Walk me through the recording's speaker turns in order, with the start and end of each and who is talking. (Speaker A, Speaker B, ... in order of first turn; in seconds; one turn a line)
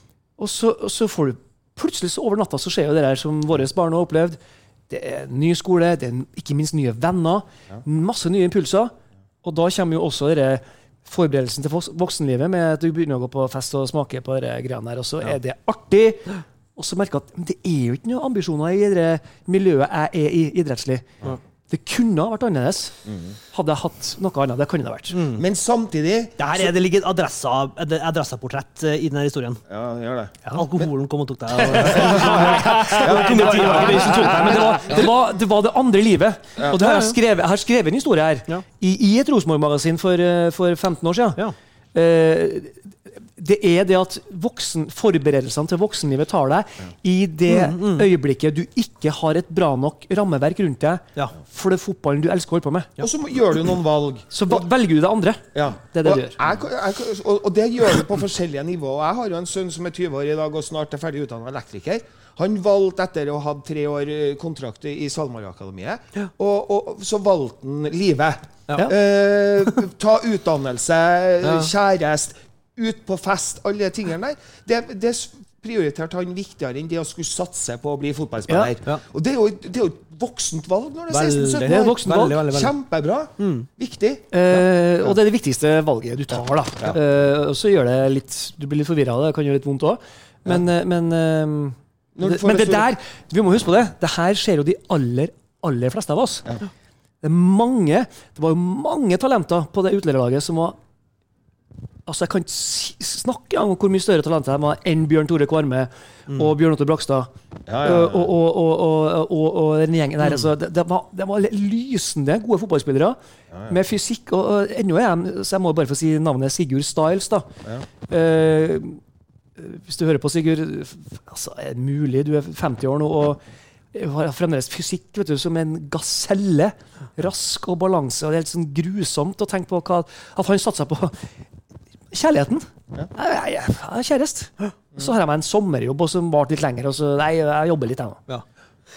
Speaker A: 0.4-4.4
Speaker A: 4.9-25.2
Speaker B: 23.1-23.3
Speaker C: 25.1-25.4
Speaker B: 25.3-26.4
Speaker C: 26.4-29.6
Speaker B: 29.7-30.9
Speaker C: 30.5-35.1
Speaker A: 31.6-41.4
Speaker B: 31.7-34.7
Speaker C: 36.7-37.2
Speaker A: 41.9-53.0
Speaker C: 47.5-48.1
Speaker B: 53.0-54.6
Speaker A: 54.3-56.4
Speaker B: 55.5-84.2
Speaker C: 71.4-71.7
Speaker A: 78.5-78.7
Speaker C: 81.1-82.7
Speaker A: 81.6-82.4
Speaker C: 83.4-83.7
Speaker A: 84.3-96.6
Speaker B: 92.2-92.9
Speaker A: 97.2-100.8
Speaker A: 102.1-107.3
Speaker B: 107.7-108.3
Speaker A: 107.8-117.5
Speaker A: 118.1-119.0
Speaker A: 119.6-123.4
Speaker A: 123.9-131.2
Speaker A: 132.1-138.2